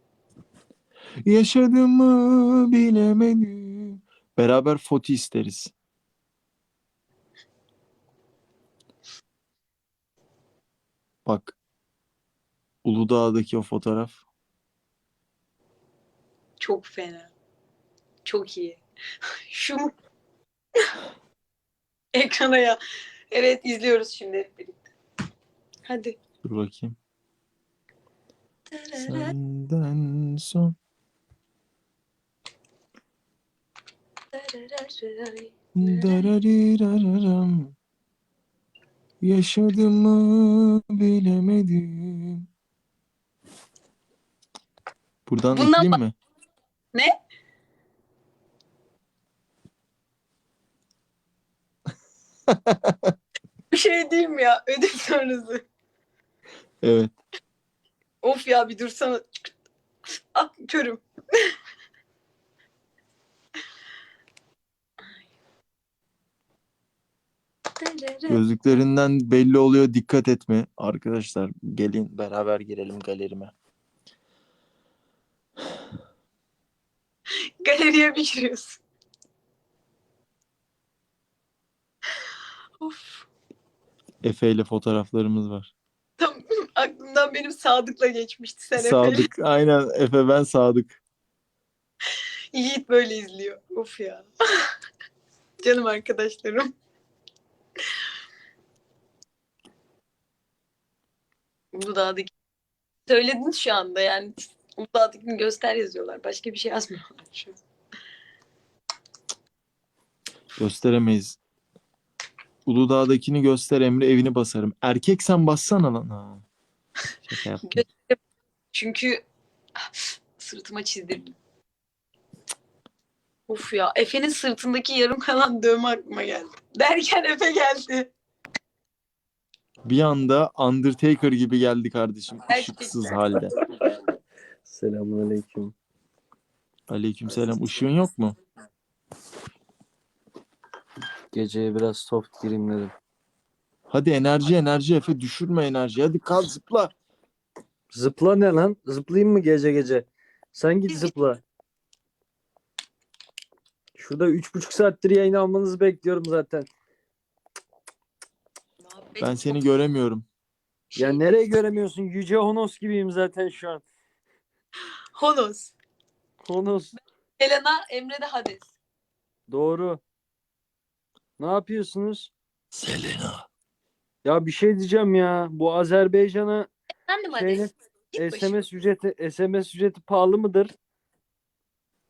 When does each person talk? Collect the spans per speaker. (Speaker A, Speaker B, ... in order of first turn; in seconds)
Speaker A: 1.2-5.7, 11.2-11.5, 12.8-14.2, 26.4-27.0, 29.0-30.7, 35.8-37.7, 39.2-42.5, 45.3-46.1, 52.5-53.1, 56.8-57.1, 68.3-73.5, 84.2-85.7, 88.8-91.0, 110.6-111.4, 112.7-116.4, 117.3-117.8, 129.8-133.5, 136.9-138.4, 143.9-146.9, 159.2-160.2, 172.7-173.5
Speaker B: 16.6-17.3, 18.2-18.8, 19.5-19.9, 22.1-22.8, 23.3-24.8, 25.9-26.2, 28.7-29.3, 34.3-36.2, 45.5-46.0, 53.7-55.6, 58.2-59.5, 60.3-61.5, 67.8-68.4, 77.6-78.8, 82.8-83.2, 86.2-89.3, 92.5-94.7, 95.6-96.7, 101.7-102.3, 103.1-107.5, 117.7-118.2, 118.7-119.2, 119.8-121.3, 123.5-128.1, 132.5-133.1, 150.9-151.1, 158.8-159.6, 160.9-161.2, 165.2-165.7, 167.4-168.7, 177.1-178.6
Speaker C: 134.6-135.7, 141.3-142.9, 147.9-151.4, 153.9-156.7, 160.9-163.8, 166.4-166.9, 169.5-170.0, 171.4-172.3, 174.2-176.7, 177.3-180.7